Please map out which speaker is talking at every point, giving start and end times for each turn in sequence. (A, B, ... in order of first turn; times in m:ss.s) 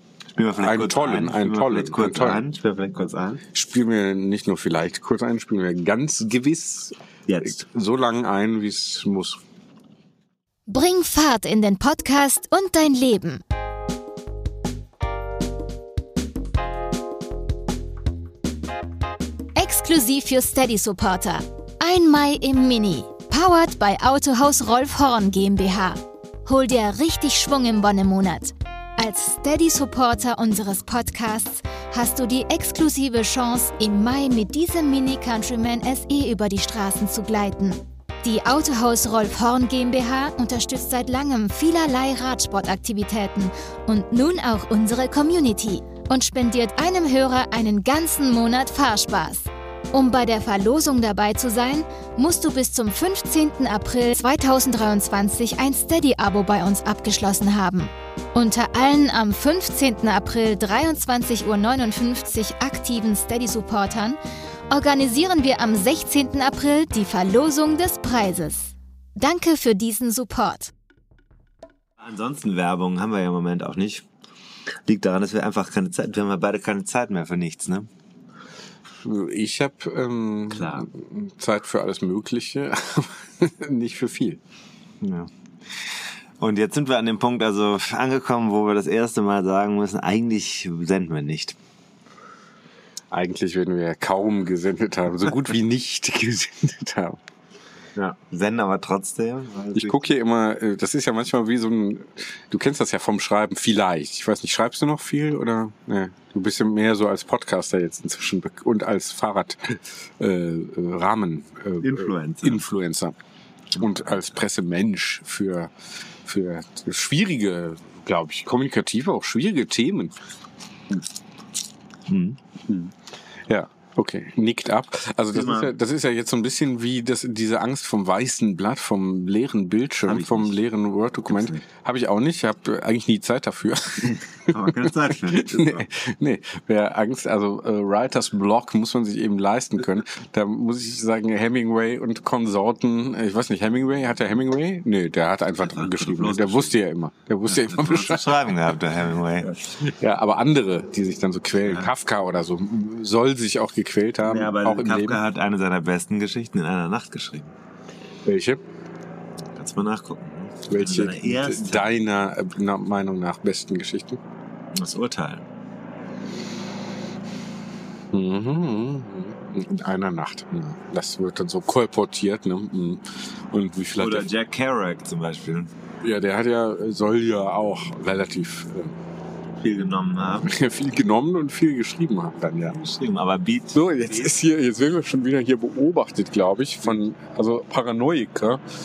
0:00.4-0:03.4 A
0:00.6-0:02.4 B
0:03.5-0:09.4 B
0:07.3-0:07.6 A
0:10.7-0:13.4 C
0:19.6-1:04.2 C
1:04.7-1:10.7 C
1:12.0-1:14.1 A
1:14.9-1:17.9 A
1:19.0-1:24.4 B
1:20.5-1:20.9 A
1:25.0-1:31.6 A
1:33.1-1:37.2 B
1:38.3-1:40.0 A
1:39.8-1:53.2 B
1:51.8-1:52.6 A
1:53.7-1:54.2 A
1:53.8-1:55.7 B
1:56.2-2:00.1 B
2:02.1-2:02.4 A
2:03.5-2:28.6 B
2:05.3-2:05.7 A
2:10.0-2:10.6 A
2:11.3-2:11.6 A
2:14.5-2:15.9 A
2:25.7-2:26.7 A
2:27.5-2:29.5 A
2:29.7-2:35.2 B
2:31.6-2:31.9 A
2:34.2-2:37.5 A
2:38.2-2:38.6 B
2:39.5-2:41.9 A
2:40.7-2:44.2 B
2:44.7-2:45.5 A
2:48.1-2:54.3 B
2:54.0-2:55.7 A
2:56.0-2:59.0 B
2:59.6-3:00.5 A
3:00.4-3:02.8 B
3:02.6-3:04.3 A
3:03.7-3:08.6 B